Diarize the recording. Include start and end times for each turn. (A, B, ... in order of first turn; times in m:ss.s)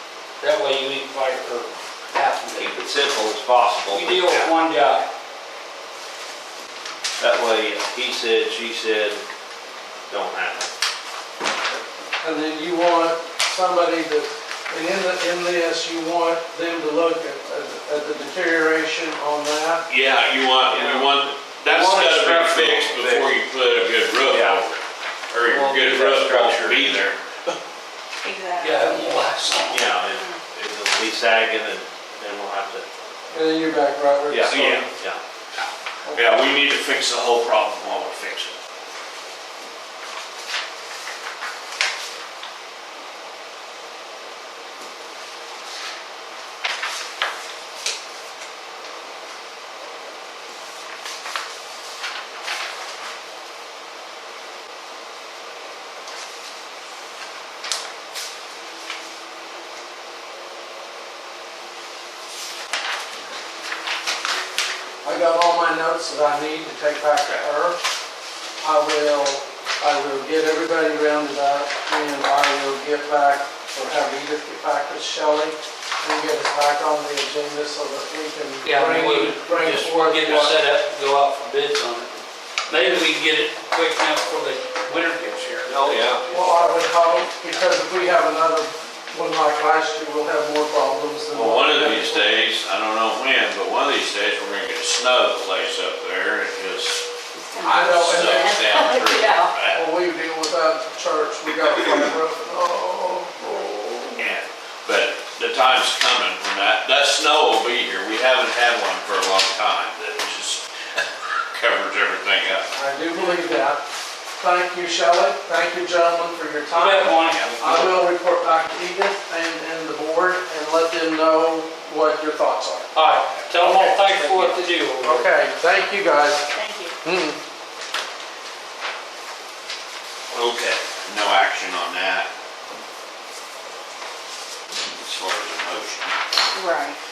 0:00.4-0:02.8 A
0:02.6-0:04.3 B
0:03.9-0:05.0 A
0:07.2-0:09.2 B
0:10.1-0:10.7 B
0:12.2-0:19.8 C
0:19.9-0:27.6 D
0:20.6-0:21.3 B
0:21.7-0:23.0 A
0:23.0-0:23.3 B
0:24.2-0:24.6 B
0:25.4-0:27.0 B
0:28.2-0:29.0 E
0:28.6-0:29.9 A
0:29.7-0:33.0 B
0:30.1-0:30.4 E
0:33.3-0:34.9 C
0:34.3-0:35.2 B
0:34.4-0:34.9 D
0:36.0-0:36.3 C
0:36.1-0:38.6 D
1:05.0-1:07.8 C
1:08.6-1:20.6 C
1:18.6-1:27.0 A
1:25.6-1:26.6 B
1:26.3-1:32.4 C
1:31.3-1:37.0 D
1:37.3-1:39.6 E
1:37.6-1:38.7 C
1:37.6-1:39.8 D
1:39.7-1:44.3 C
1:44.2-1:52.7 D
1:52.7-1:53.8 C
1:54.4-2:02.9 C
1:56.7-1:57.9 A
1:57.3-1:57.8 D
2:02.9-2:05.3 A
2:03.5-2:04.0 C
2:05.0-2:06.5 C
2:06.5-2:07.0 E
2:07.0-2:07.4 C
2:10.3-2:12.3 D
2:14.7-2:16.2 D
2:16.5-2:17.0 E